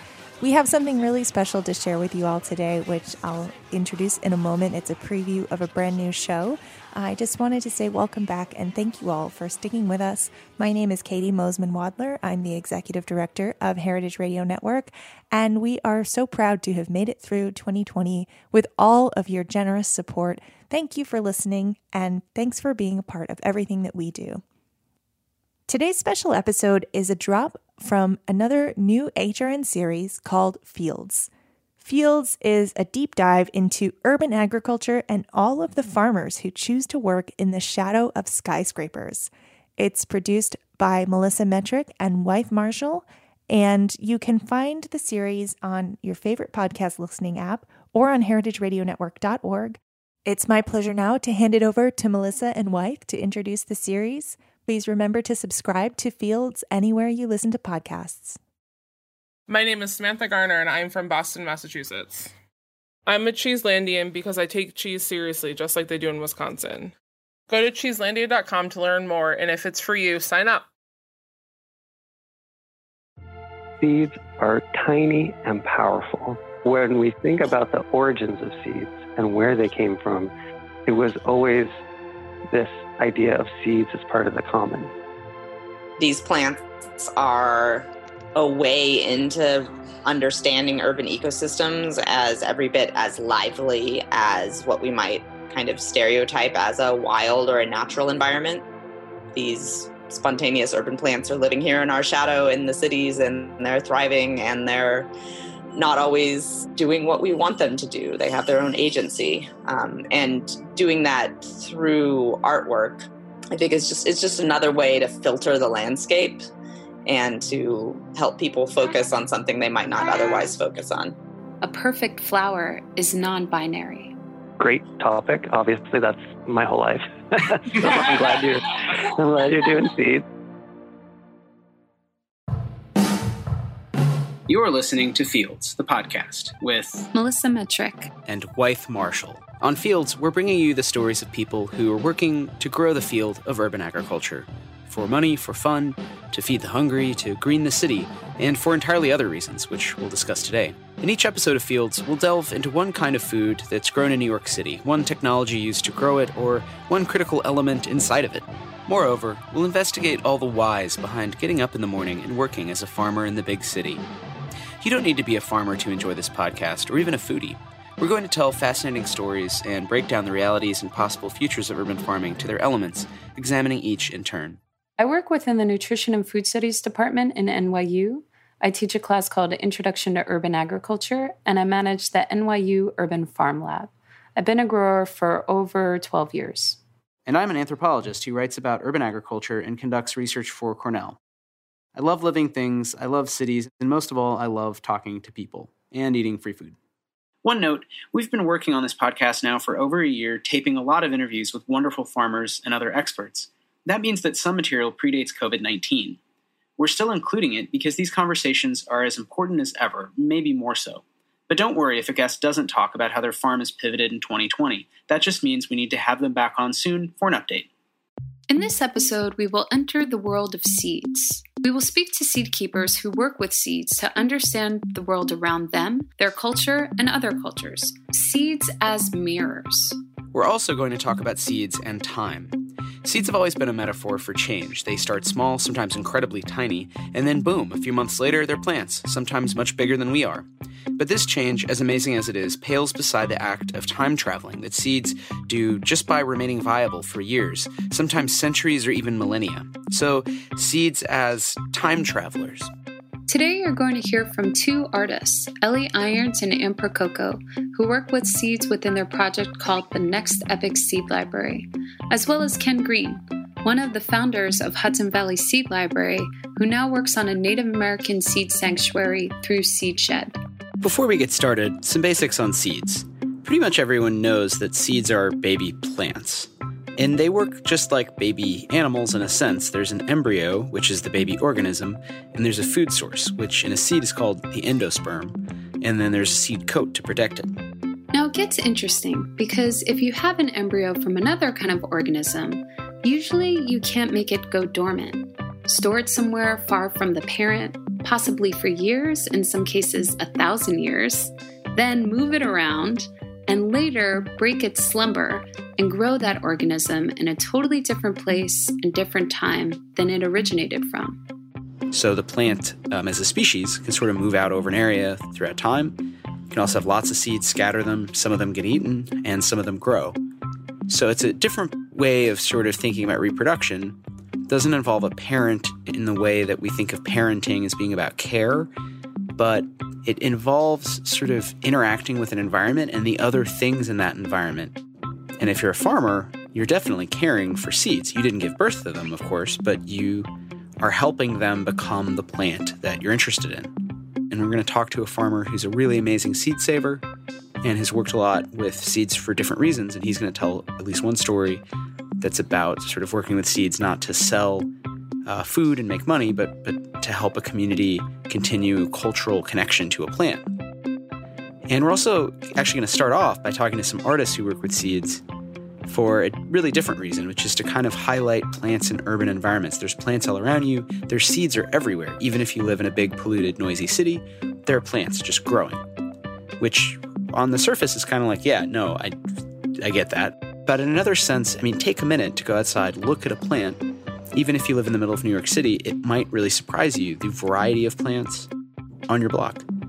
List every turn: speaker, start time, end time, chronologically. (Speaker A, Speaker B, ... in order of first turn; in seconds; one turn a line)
Speaker A: 0.4-24.4
Speaker A: 25.7-31.3
Speaker A: 31.8-58.4
Speaker B: 59.5-62.3
Speaker B: 63.0-66.9
Speaker B: 67.5-70.7
Speaker C: 73.8-80.3
Speaker C: 80.8-81.8
Speaker C: 82.5-84.9
Speaker D: 86.0-98.6
Speaker D: 99.3-105.1
Speaker D: 105.7-116.4
Speaker D: 117.1-121.2
Speaker E: 121.6-124.1
Speaker C: 124.6-130.2
Speaker F: 134.5-137.1
Speaker E: 137.1-138.1
Speaker F: 138.2-164.0
Speaker F: 164.8-174.6
Speaker E: 175.0-186.8
Speaker F: 187.2-191.2
Speaker F: 191.9-196.8
Speaker F: 197.4-206.2
Speaker F: 206.8-217.7
Speaker E: 218.5-230.0
Speaker F: 230.3-252.7
Speaker E: 253.3-270.4
Speaker F: 270.8-287.5
Speaker E: 288.1-311.2
Speaker F: 311.9-320.2
Speaker F: 320.9-328.7
Speaker F: 329.3-334.8
Speaker F: 335.4-343.8
Speaker F: 344.3-347.0
Speaker F: 347.6-351.6
Speaker F: 352.2-354.7
Speaker F: 355.2-360.5
Speaker F: 361.7-365.2
Speaker F: 365.8-375.8
Speaker F: 376.6-379.1
Speaker F: 379.8-383.8
Speaker F: 384.3-388.5
Speaker F: 389.1-389.6